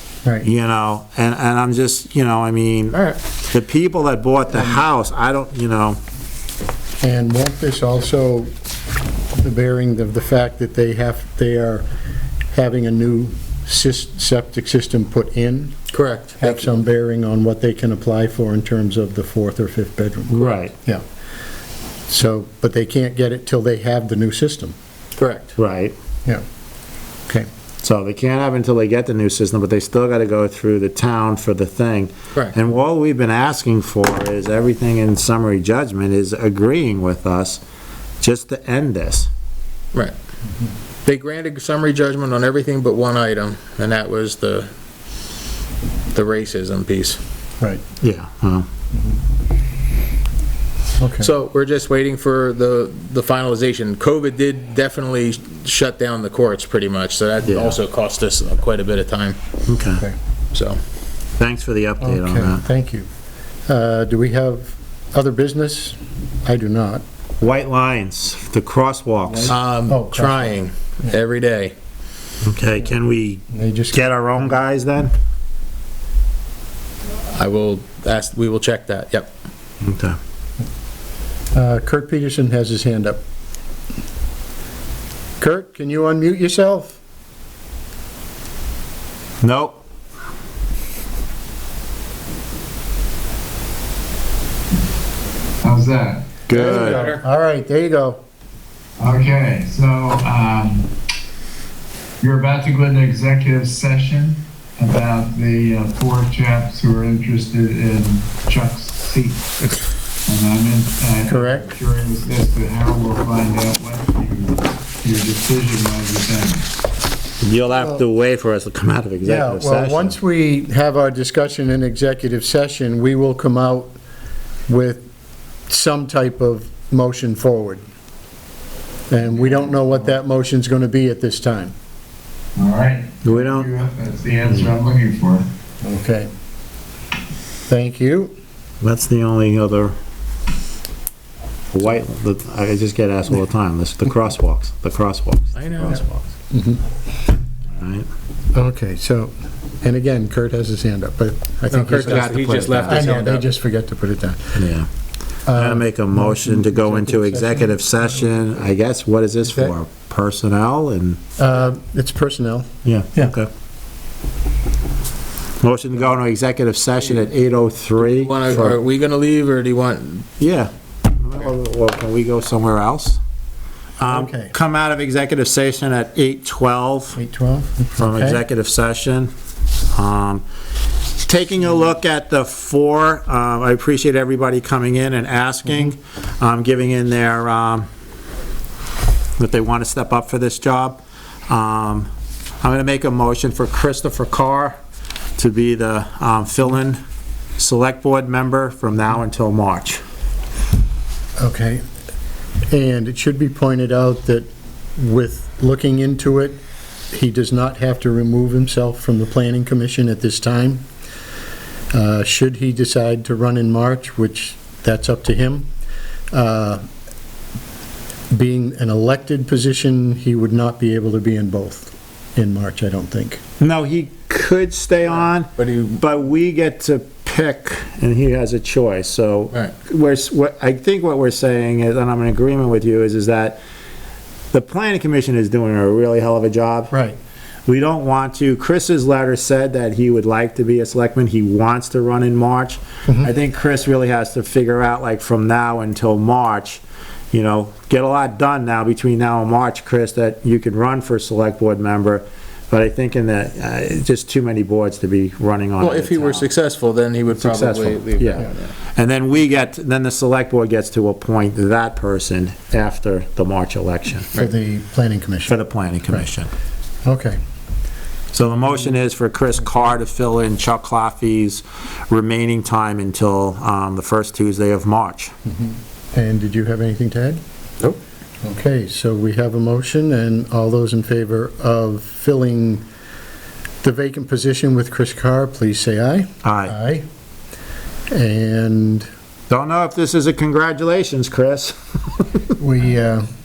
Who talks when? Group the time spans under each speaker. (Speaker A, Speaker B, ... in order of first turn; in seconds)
Speaker A: 0.4-3.0, 3.5-6.0, 20.3-20.7, 25.6-25.9, 27.8-37.6, 38.2-39.3, 48.0-48.7, 57.4-57.8, 59.7-60.0, 61.4-62.6, 67.4-69.6, 72.4-75.1, 79.8-80.2, 89.4-89.8, 96.5-97.0, 117.4-120.2, 133.2-133.7, 134.4-134.7, 138.8-139.9, 141.7-146.1, 147.8-148.1, 154.6-154.9, 155.5-161.2, 162.8-163.5, 165.6-168.8, 170.4-173.2, 174.0-177.2, 178.0-179.3, 179.9-180.4, 181.2-187.9, 189.4-192.1, 192.6-194.8, 195.4-197.0, 197.6-200.0, 223.6-233.6, 234.5-236.9, 237.7-246.8, 247.3-256.5, 257.4-264.3, 265.5-266.5, 268.3-275.3, 286.4-286.8, 289.5-292.4
Speaker B: 2.9-3.2, 15.9-16.5, 25.2-25.5, 41.0-44.7, 46.1-47.2, 51.2-59.4, 60.5-60.8, 69.5-71.7, 77.2-79.3, 95.6-97.2, 99.0-100.8, 108.5-109.3, 132.9-135.4, 145.6-146.1, 151.7-153.5, 168.0-170.3, 225.6-226.0, 255.8-258.7
Speaker C: 4.5-4.8, 7.0-8.5, 9.4-11.8, 12.5-15.8, 16.4-21.0, 22.1-24.8, 51.0-51.3, 62.0-63.1, 63.7-67.0, 69.3-71.2, 73.5-74.6, 81.5-83.2, 85.4-87.0, 96.5-98.2, 111.3-111.7, 117.8-118.0, 119.2-124.0, 124.7-125.0, 125.7-127.8, 129.1-131.7, 135.8-136.3, 137.7-138.3, 146.5-146.8, 148.5-154.6, 155.5-158.5, 159.4-159.8, 161.4-163.3, 174.0-174.5, 177.2-178.4, 201.4-201.8, 202.7-206.6, 207.1-210.9, 211.9-215.7, 216.3-216.8, 218.3-223.4, 236.9-237.2, 264.4-265.6, 267.1-267.4, 275.5-277.4, 278.4-282.9, 283.8-287.1, 288.1-289.1, 292.6-293.2
Speaker D: 99.0-100.7, 102.2-109.4, 110.3-116.6, 132.6-135.4